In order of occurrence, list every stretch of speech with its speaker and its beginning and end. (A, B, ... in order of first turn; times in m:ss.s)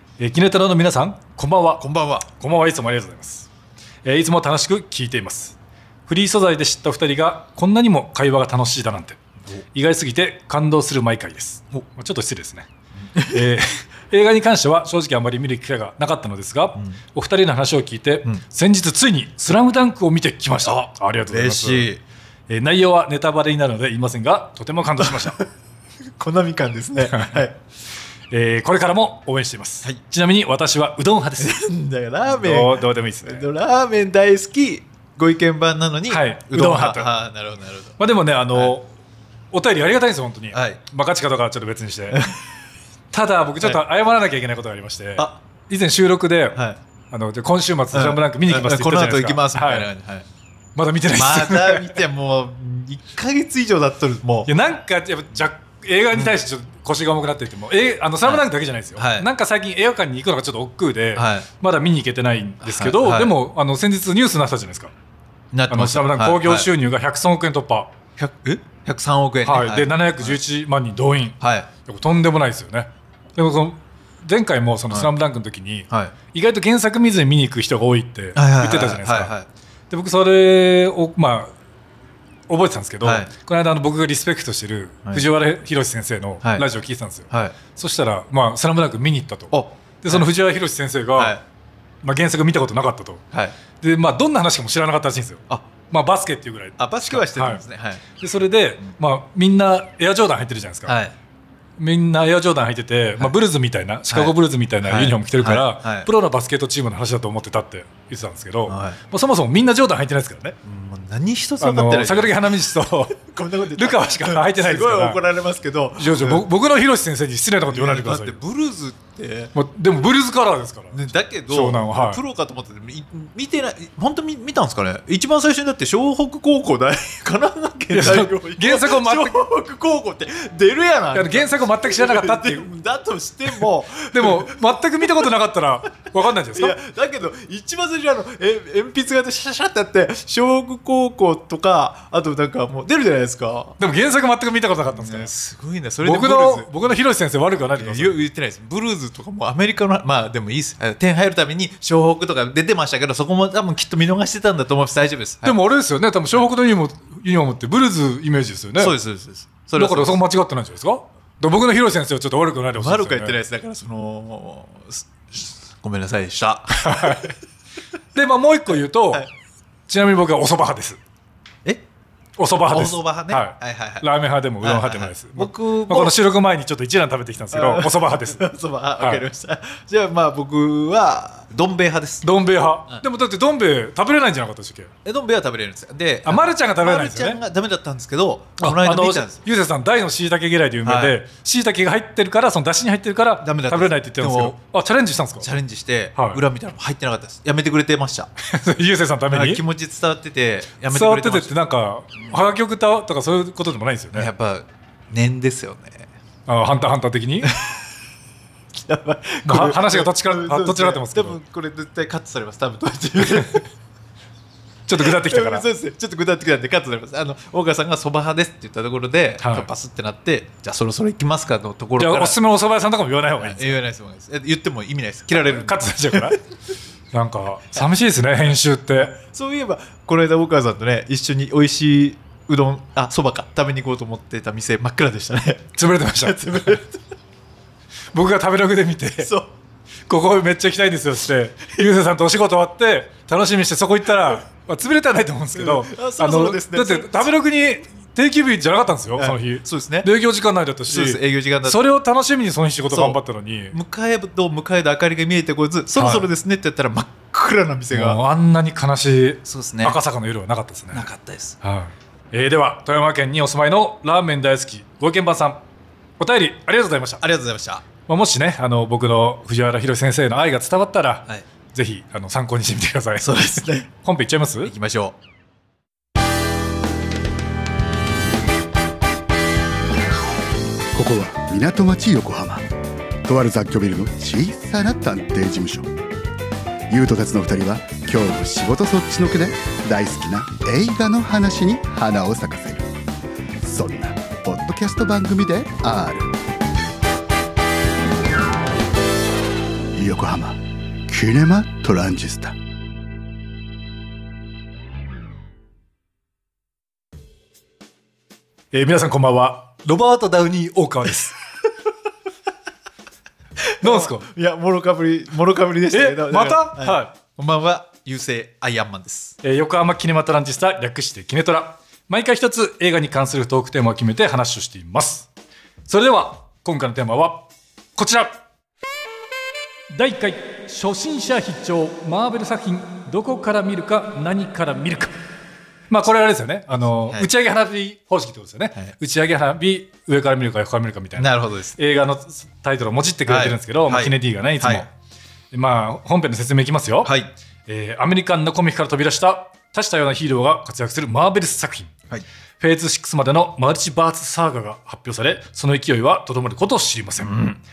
0:00.2-0:03.5 A
0:01.8-0:02.3 B
0:04.0-0:05.6 A
0:06.1-0:09.2 A
0:09.7-0:12.7 A
0:13.1-0:13.4 B
0:13.3-0:21.9 A
0:20.6-0:22.0 B
0:22.5-0:25.4 A
0:25.0-0:25.4 B
0:26.2-0:27.6 B
0:27.0-0:27.5 A
0:28.3-0:31.6 A
0:31.4-0:38.0 B
0:32.2-0:33.5 A
0:36.1-0:37.1 A
0:38.0-0:38.9 A
0:39.5-0:42.2 A
0:40.5-0:40.8 B
0:42.1-0:42.4 B
0:43.1-0:46.6 A
0:46.5-0:46.8 B
0:47.1-0:49.9 A
0:47.9-0:50.3 B
0:50.8-0:52.0 A
0:51.1-0:54.5 B
0:54.5-1:04.9 A
0:59.0-0:59.3 B
1:01.2-1:01.5 B
1:02.6-1:03.3 B
1:05.5-1:06.7 B
1:05.7-1:07.9 A
1:08.2-1:10.4 B
1:09.4-1:19.3 A
1:11.4-1:11.7 B
1:15.9-1:16.2 B
1:18.4-1:19.5 B
1:19.9-1:21.5 A
1:22.5-1:31.4 A
1:23.0-1:23.3 B
1:27.3-1:27.6 B
1:29.5-1:30.3 B
1:31.2-1:31.4 B
1:32.0-1:33.2 A
1:33.8-1:41.0 A
1:36.8-1:38.0 B
1:40.9-1:41.2 B
1:41.8-1:50.6 A
1:44.1-1:46.1 B
1:48.7-1:49.0 B
1:50.6-1:56.4 B
1:51.6-1:53.2 A
1:53.8-1:55.2 A
1:56.0-1:58.4 A
1:57.7-1:59.5 B
1:59.6-2:02.2 A
2:00.9-2:15.3 B
2:07.9-2:09.4 A
2:11.1-2:12.7 A
2:13.5-2:16.8 A
2:16.5-2:23.8 B
2:23.8-2:25.3 A
2:24.9-2:26.7 B
2:26.0-2:28.2 A
2:27.8-2:35.6 B
2:35.4-2:39.0 A
2:38.8-2:40.2 B
2:39.8-2:43.4 A
2:42.7-2:47.4 B
2:46.8-2:47.3 A
2:48.2-2:49.3 A
2:49.9-2:51.0 A
2:52.4-2:58.4 A
2:52.7-2:54.1 B
2:54.6-2:56.1 B
2:57.5-3:02.3 B
2:59.0-2:59.2 A
3:02.2-3:04.9 A
3:05.0-3:09.4 B
3:06.3-3:07.4 A
3:08.6-3:15.5 A
3:10.8-3:11.2 B
3:13.4-3:14.6 B
3:15.4-3:18.3 B
3:16.2-3:16.4 A
3:18.4-3:19.6 A
3:19.3-3:21.5 B
3:20.9-3:24.3 A
3:24.1-3:26.1 B
3:26.5-3:27.5 A
3:27.4-3:27.8 B
3:28.9-3:33.7 B
3:29.5-3:31.4 A
3:33.2-3:33.5 A
3:34.9-3:35.6 A
3:35.0-3:42.4 B
3:39.4-3:39.7 A
3:42.0-3:43.8 A
3:43.4-3:46.4 B
3:45.3-3:46.4 A
3:47.1-3:49.1 A
3:49.0-3:57.0 B
3:55.8-3:56.8 A
3:58.1-3:59.3 A
3:59.2-3:59.5 B
4:00.1-4:13.8 A
4:05.5-4:07.3 B
4:09.2-4:10.1 B
4:10.9-4:11.8 B
4:12.9-4:13.2 B
4:13.7-4:18.2 B
4:16.0-4:16.3 A
4:17.9-4:21.1 A
4:19.4-4:20.0 B
4:20.9-4:21.6 B
4:21.6-4:25.6 A
4:26.2-4:27.2 A
4:27.2-4:27.8 B
4:28.1-4:34.7 A
4:33.2-4:33.9 B
4:34.6-4:35.2 B
4:40.9-4:42.7 C
4:43.2-4:45.9 C
4:46.9-4:52.9 C
4:53.6-4:56.4 C
4:59.9-5:02.6 C
5:08.7-5:11.4 A
5:13.6-5:19.4 B
5:13.8-5:14.3 A
5:15.9-5:17.1 A
5:19.4-5:25.3 A
5:25.9-5:27.5 A
5:28.0-5:28.4 A
5:29.9-5:35.1 A
5:35.9-5:44.9 A
5:41.2-5:41.8 B
5:43.3-5:44.9 B
5:45.5-5:47.1 A
5:47.0-5:47.3 B
5:47.7-5:52.0 A
5:52.6-5:57.4 A
5:57.2-5:57.6 B